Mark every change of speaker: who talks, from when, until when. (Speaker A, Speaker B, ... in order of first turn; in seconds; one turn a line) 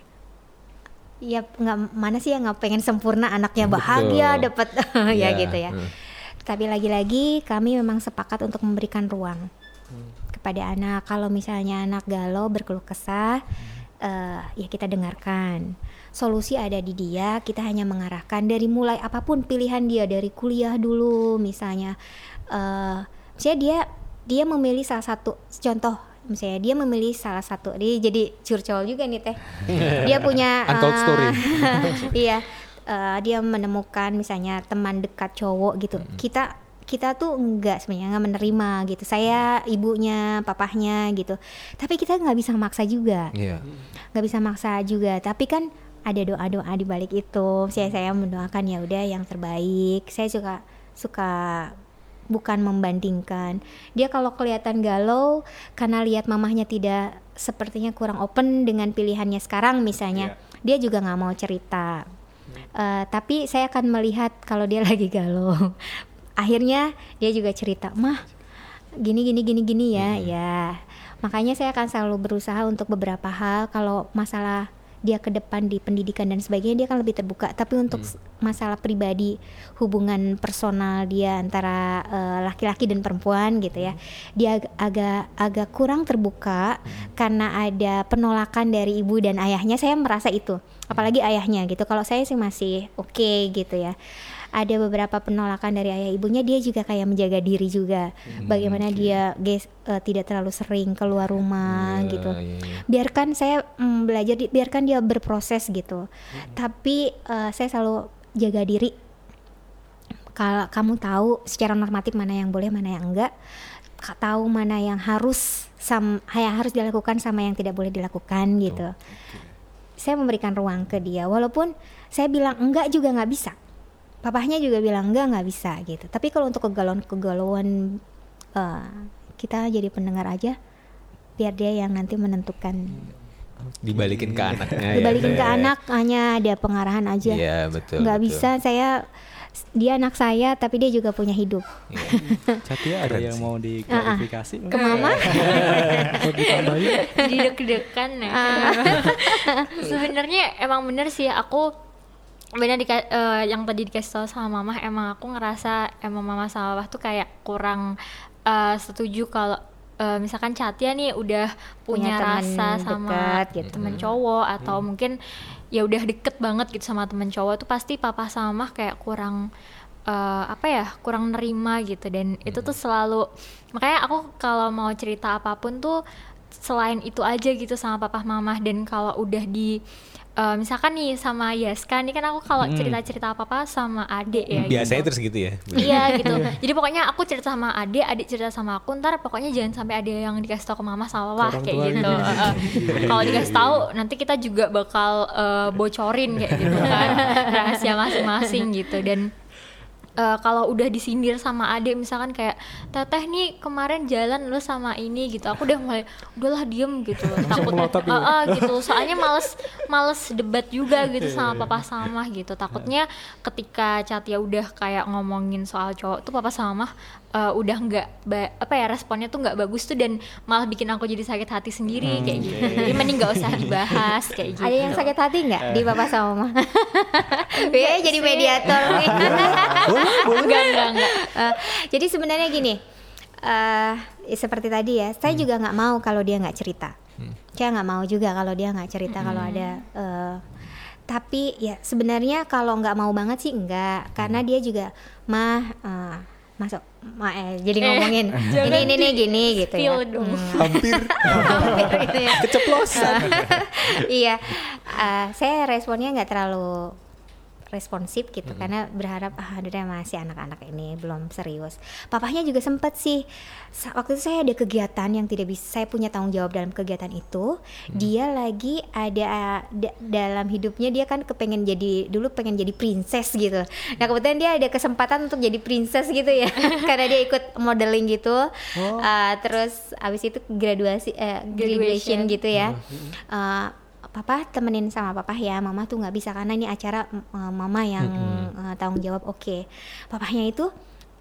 Speaker A: 1.2-5.8
Speaker B: 3.6-4.5
Speaker B: 5.1-5.9
Speaker A: 6.4-9.5
Speaker A: 10.3-13.4
Speaker A: 14.0-22.0
Speaker A: 22.5-43.3
Speaker B: 29.7-32.1
Speaker B: 43.3-43.7
Speaker C: 43.6-43.9
Speaker A: 44.1-51.8
Speaker A: 52.3-62.1
Speaker A: 62.8-68.3
Speaker A: 69.0-102.4
Speaker B: 70.0-70.3
Speaker B: 98.3-99.2
Speaker B: 101.6-102.9
Speaker A: 102.9-108.9
Speaker A: 110.4-113.3
Speaker A: 114.0-119.0
Speaker D: 119.1-119.6
Speaker A: 120.0-123.6
Speaker A: 124.2-128.0
Speaker A: 128.6-130.6
Speaker A: 131.4-133.0
Speaker B: 133.8-135.7
Speaker D: 133.9-135.5
Speaker A: 134.9-137.4
Speaker B: 137.2-138.5
Speaker A: 138.0-139.1
Speaker A: 139.6-142.6
Speaker B: 141.9-142.2
Speaker D: 142.6-146.2
Speaker B: 143.0-143.5
Speaker A: 143.9-146.2
Speaker E: 144.7-145.9
Speaker C: 146.1-147.1
Speaker E: 146.5-151.7
Speaker A: 146.9-147.3
Speaker A: 148.3-149.9
Speaker E: 152.6-169.5
Speaker A: 161.9-164.0
Speaker B: 163.7-164.1
Speaker E: 170.1-176.0
Speaker B: 172.5-172.8
Speaker E: 176.6-179.8
Speaker E: 180.4-185.1
Speaker D: 182.6-183.0
Speaker B: 184.5-186.5
Speaker E: 185.8-199.3
Speaker C: 186.2-186.6
Speaker C: 191.4-193.6
Speaker D: 192.7-193.3
Speaker B: 193.2-193.8
Speaker D: 196.5-197.1
Speaker C: 196.7-197.3
Speaker E: 200.2-225.1
Speaker C: 207.3-209.4
Speaker D: 222.0-224.2
Speaker A: 224.6-232.8
Speaker D: 225.6-226.1
Speaker E: 227.5-231.3
Speaker D: 228.8-229.7
Speaker B: 229.3-230.8
Speaker A: 233.4-236.9
Speaker A: 237.5-240.4
Speaker E: 239.2-239.8
Speaker B: 239.2-239.5
Speaker A: 241.1-257.0
Speaker E: 247.8-252.3
Speaker D: 248.4-248.7
Speaker B: 250.5-253.5
Speaker A: 257.7-290.7
Speaker E: 281.5-282.4
Speaker B: 282.5-282.8
Speaker B: 288.0-288.5